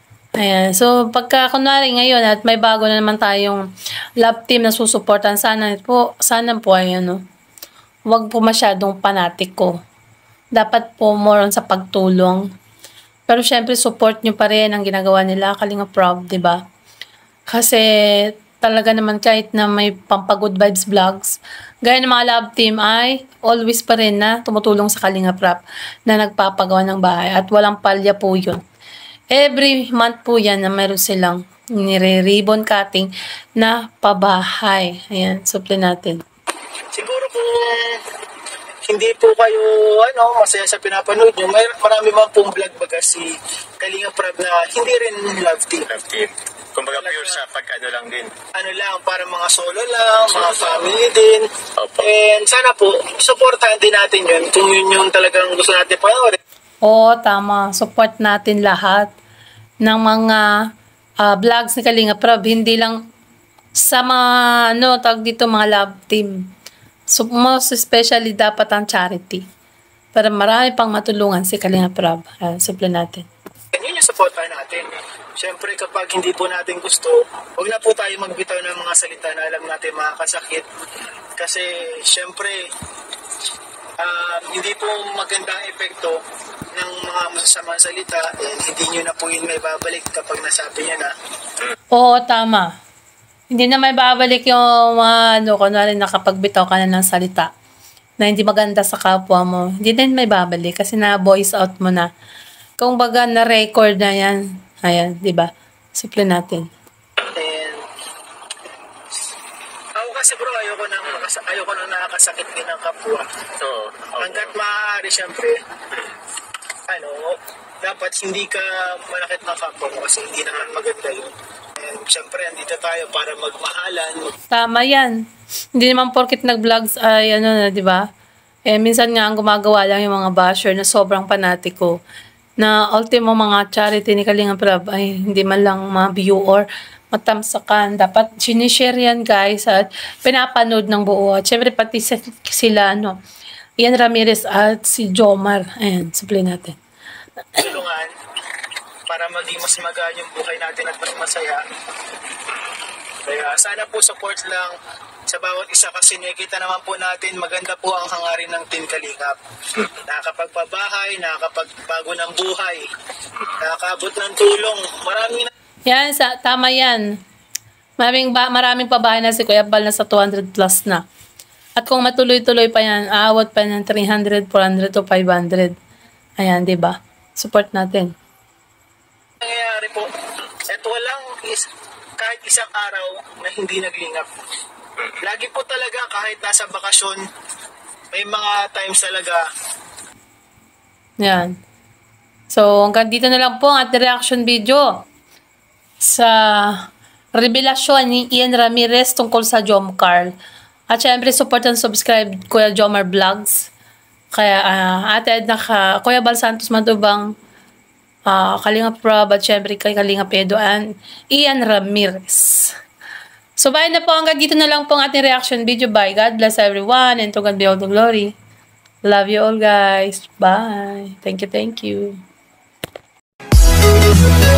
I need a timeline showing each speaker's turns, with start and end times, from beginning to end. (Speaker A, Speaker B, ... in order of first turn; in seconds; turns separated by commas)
Speaker A: 0.4-3.6, Speaker A: 4.2-7.2, Speaker A: 8.1-9.7, Speaker A: 10.5-12.4, Speaker A: 13.3-16.6, Speaker A: 17.5-28.6, Speaker A: 29.3-36.2, Speaker B: 36.9-38.0, Speaker B: 38.9-45.9, Speaker C: 45.9-48.3, Speaker B: 46.9-47.4, Speaker B: 48.5-56.4, Speaker C: 50.3-51.0, Speaker C: 51.8-52.1, Speaker A: 56.8-59.1, Speaker A: 59.8-60.4, Speaker A: 61.2-63.0, Speaker A: 63.8-66.3, Speaker A: 67.1-69.4, Speaker A: 70.1-73.3, Speaker B: 73.7-80.7, Speaker B: 81.4-82.7, Speaker B: 84.0-86.2, Speaker B: 86.7-91.1, Speaker A: 91.9-92.7, Speaker A: 93.5-97.5, Speaker A: 98.2-102.1, Speaker A: 102.8-106.7, Speaker B: 107.3-107.8, Speaker B: 110.0-113.2, Speaker C: 113.6-114.5, Speaker B: 114.2-115.6, Speaker B: 116.9-124.3, Speaker C: 120.5-120.8, Speaker A: 124.5-125.2, Speaker A: 125.8-128.0, Speaker A: 128.7-131.9, Speaker A: 132.6-143.2, Speaker A: 143.8-146.8, Speaker B: 147.6-148.1, Speaker B: 149.1-151.6, Speaker B: 153.2-154.8, Speaker B: 155.3-159.4, Speaker B: 160.0-162.8, Speaker B: 163.6-165.5, Speaker A: 165.9-167.1, Speaker A: 168.0-171.0, Speaker A: 171.8-175.7, Speaker A: 176.4-178.1, Speaker B: 179.4-180.1, Speaker B: 180.7-184.3, Speaker B: 185.2-187.2, Speaker B: 188.1-189.4, Speaker A: 191.2-191.6, Speaker A: 192.5-195.0, Speaker A: 196.0-200.3, Speaker A: 200.9-203.7, Speaker A: 204.3-207.3, Speaker A: 208.3-212.7, Speaker A: 213.6-218.3, Speaker A: 219.0-222.2